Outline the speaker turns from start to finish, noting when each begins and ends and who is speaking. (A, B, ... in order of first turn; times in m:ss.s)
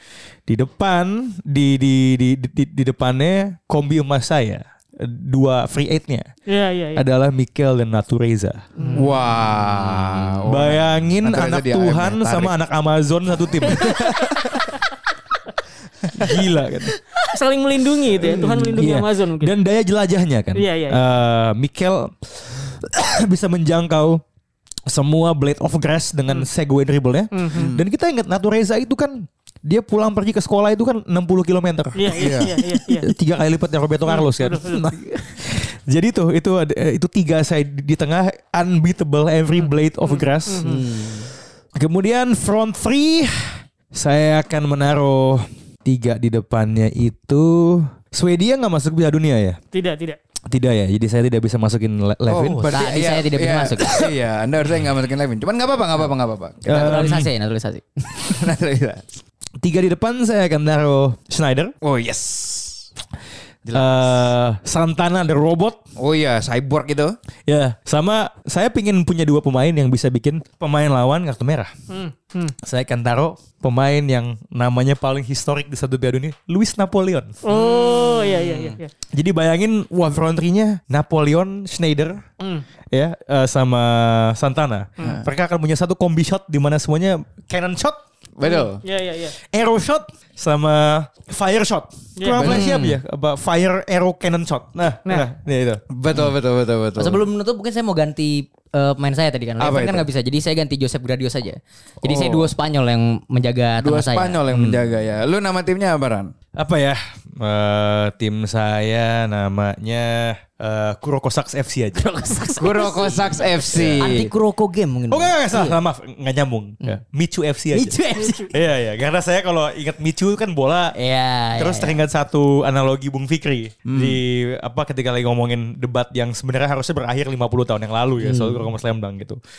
0:00.5-0:06.3 A
0:06.5-0:07.0 B
0:06.9-0:08.6 A
0:08.8-0:09.1 B
0:08.9-0:12.5 C
0:10.4-0:14.3 A
0:13.6-0:14.5 B
0:13.7-0:14.5 C
0:16.1-0:17.0 A
0:17.2-0:19.5 B
0:18.2-0:24.2 A
0:20.5-0:21.0 B
0:24.9-0:40.7 A
0:27.3-0:27.7 B
0:27.5-0:27.8 C
0:32.0-0:33.1 B
0:32.2-0:32.5 C
0:34.0-0:34.9 B
0:39.6-0:40.8 B
0:40.6-0:41.3 D
0:41.8-0:49.6 A
0:49.7-0:50.2 B
0:50.5-0:52.7 A
0:52.3-0:57.1 C
0:52.4-0:54.1 D
0:56.7-0:57.3 A
0:56.7-0:58.1 D
0:58.2-0:59.2 C
0:59.6-1:01.7 A
1:01.8-1:02.8 C
1:03.6-1:04.3 C
1:03.7-1:05.8 A
1:06.0-1:07.1 C
1:07.5-1:11.7 A
1:11.9-1:12.5 B
1:12.6-1:17.4 A
1:17.4-1:18.9 B
1:17.5-1:18.8 C
1:19.1-1:22.2 A
1:22.4-1:22.6 B
1:22.9-1:28.0 A
1:28.4-1:28.8 C
1:28.4-1:29.4 B
1:29.5-1:35.8 A
1:32.2-1:32.4 B
1:32.4-1:32.7 C
1:32.4-1:33.0 D
1:35.9-1:37.3 C
1:37.0-1:44.4 D
1:39.6-1:40.1 C
1:42.0-1:42.5 C
1:43.8-1:46.3 C
1:44.5-1:44.8 A
1:46.6-1:52.0 A
1:52.0-1:55.8 D
1:52.6-1:54.3 C
1:53.7-1:54.2 A
1:55.1-1:58.0 A
1:57.7-1:58.5 D
1:58.2-1:58.4 B
1:58.5-2:00.9 A
2:00.9-2:02.0 D
2:01.6-2:09.4 A
2:03.8-2:04.2 C
2:08.2-2:08.7 D